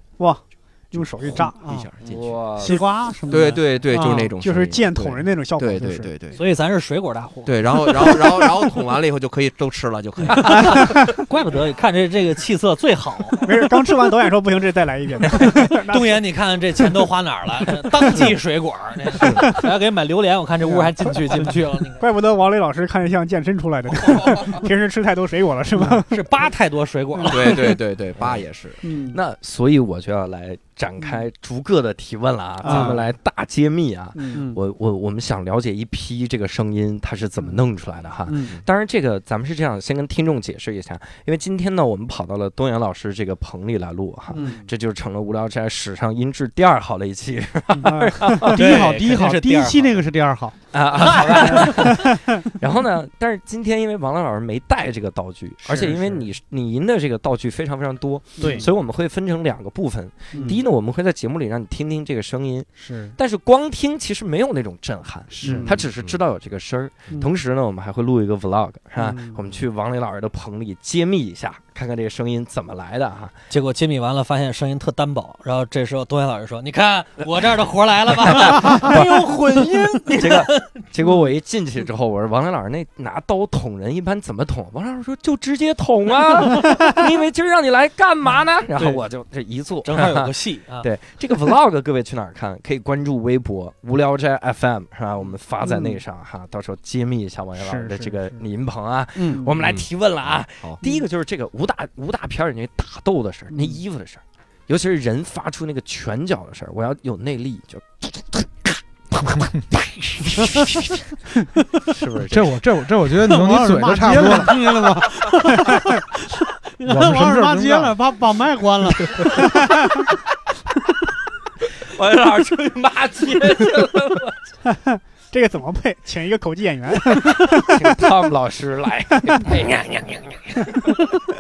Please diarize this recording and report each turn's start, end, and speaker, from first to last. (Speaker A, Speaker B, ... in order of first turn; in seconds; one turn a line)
Speaker A: 0.2-1.6
Speaker B: 0.9-2.5
Speaker C: 1.6-1.9
Speaker D: 2.0-2.8
Speaker C: 2.6-4.3
Speaker A: 2.6-3.5
Speaker B: 3.3-6.4
Speaker A: 4.0-6.1
Speaker E: 6.4-8.5
Speaker B: 7.5-11.0
Speaker D: 10.4-10.8
Speaker E: 10.4-13.6
Speaker A: 10.5-11.1
Speaker A: 13.4-16.3
Speaker E: 15.2-22.1
Speaker A: 18.0-18.2
Speaker A: 19.2-19.7
Speaker A: 20.7-21.4
Speaker A: 22.0-26.4
Speaker E: 25.9-27.6
Speaker A: 27.2-27.7
Speaker B: 27.3-28.8
Speaker D: 28.2-28.4
Speaker A: 28.8-29.2
Speaker D: 29.1-48.9
Speaker A: 32.6-33.0
Speaker C: 32.6-33.0
Speaker A: 34.1-34.5
Speaker C: 38.3-38.5
Speaker A: 44.3-44.6
Speaker C: 44.4-44.6
Speaker A: 47.8-48.6
Speaker E: 48.5-50.0
Speaker C: 48.5-50.6
Speaker D: 50.7-73.4
Speaker E: 51.1-52.0
Speaker A: 51.6-52.4
Speaker A: 55.7-56.2
Speaker A: 58.4-58.7
Speaker C: 58.4-58.7
Speaker A: 60.3-60.6
Speaker A: 62.8-63.2
Speaker A: 65.3-65.9
Speaker B: 65.7-66.2
Speaker A: 69.0-69.4
Speaker E: 73.5-80.8
Speaker D: 78.2-79.2
Speaker C: 78.9-79.3
Speaker D: 80.2-111.1
Speaker E: 89.8-90.9
Speaker A: 95.6-96.0
Speaker A: 97.6-98.4
Speaker C: 99.2-99.5
Speaker A: 99.3-99.5
Speaker B: 99.6-99.9
Speaker A: 103.5-103.8
Speaker D: 111.8-112.6
Speaker F: 112.3-114.6
Speaker C: 113.2-119.2
Speaker A: 115.7-116.0
Speaker F: 116.8-118.0
Speaker A: 119.3-120.1
Speaker D: 121.6-124.4
Speaker A: 124.7-128.1
Speaker D: 127.5-131.2